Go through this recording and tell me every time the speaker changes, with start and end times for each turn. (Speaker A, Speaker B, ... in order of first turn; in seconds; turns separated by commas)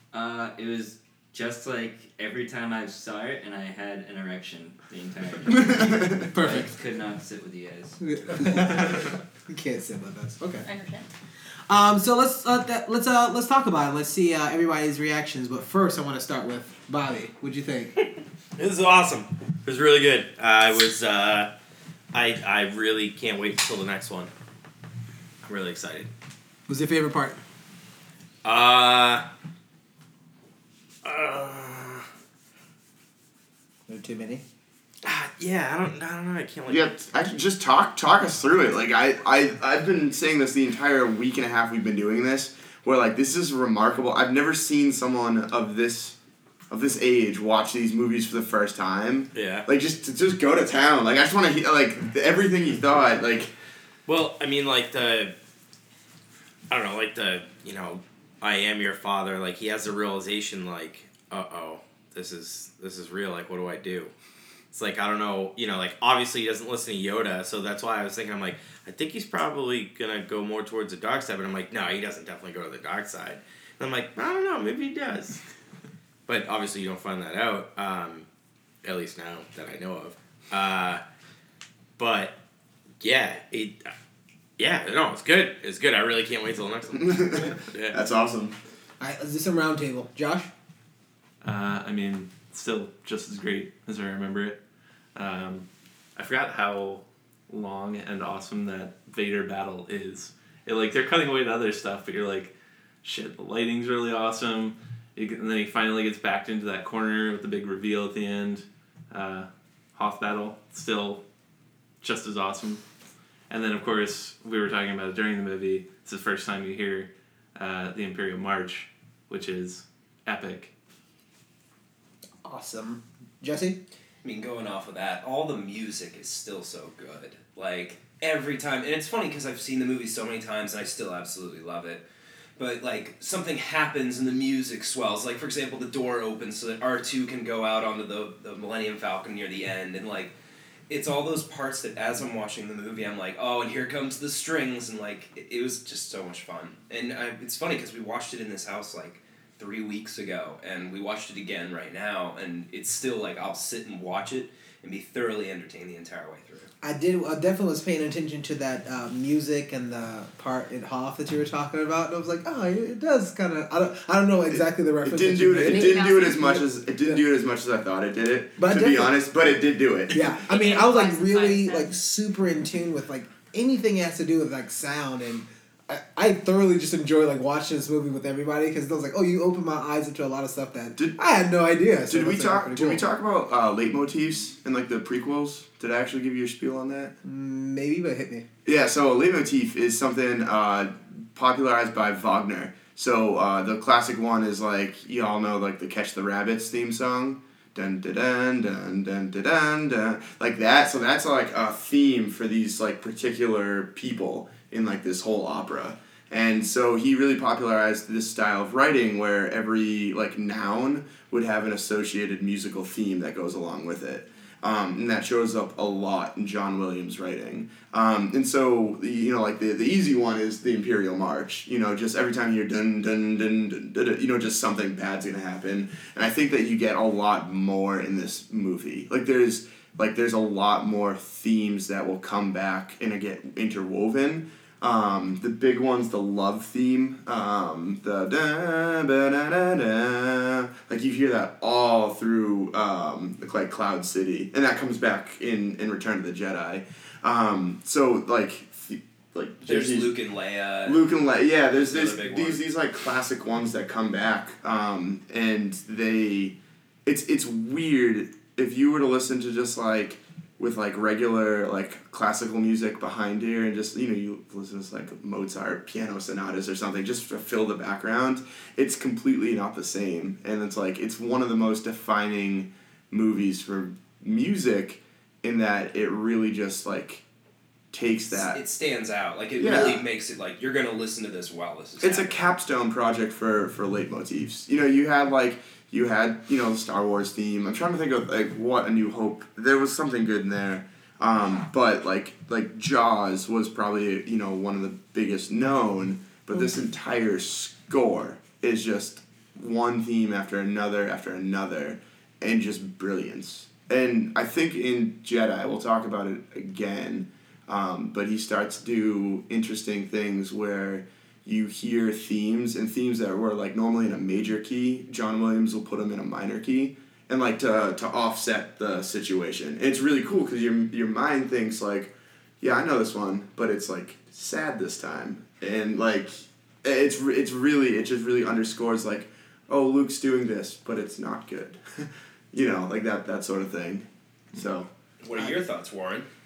Speaker A: 0.1-8.0, Speaker B: 6.3-6.7, Speaker B: 8.0-10.7, Speaker C: 10.6-11.1, Speaker B: 11.7-17.9, Speaker D: 18.6-21.5, Speaker D: 22.1-24.3, Speaker D: 25.4-26.1, Speaker B: 26.7-27.4, Speaker D: 28.4-29.2, Speaker D: 31.0-32.0, Speaker B: 33.9-34.4, Speaker D: 35.0-36.9, Speaker E: 36.7-46.1, Speaker E: 46.7-53.5, Speaker D: 49.3-49.7, Speaker D: 54.1-55.3, Speaker D: 56.7-64.1, Speaker D: 64.7-75.4, Speaker D: 76.3-78.2, Speaker D: 78.8-81.0, Speaker D: 82.0-82.4, Speaker D: 83.0-83.9, Speaker D: 84.6-88.0, Speaker E: 87.0-88.5, Speaker B: 89.0-90.5, Speaker F: 91.4-94.6, Speaker F: 95.1-95.6, Speaker F: 96.2-111.2, Speaker F: 112.0-112.8, Speaker F: 113.5-120.7, Speaker B: 122.4-123.8, Speaker G: 124.2-132.0, Speaker G: 132.6-140.3, Speaker G: 140.9-156.7, Speaker B: 156.8-167.2, Speaker E: 165.0-170.3, Speaker C: 165.7-166.6, Speaker B: 168.6-169.2, Speaker B: 170.1-183.1, Speaker C: 170.4-171.9, Speaker E: 182.1-187.1, Speaker B: 187.2-188.4, Speaker E: 188.6-250.1, Speaker G: 249.7-251.0, Speaker E: 250.8-277.2, Speaker G: 251.8-252.6, Speaker E: 277.9-278.6, Speaker G: 278.3-282.3, Speaker E: 279.6-280.0, Speaker E: 282.0-334.9, Speaker G: 335.2-336.3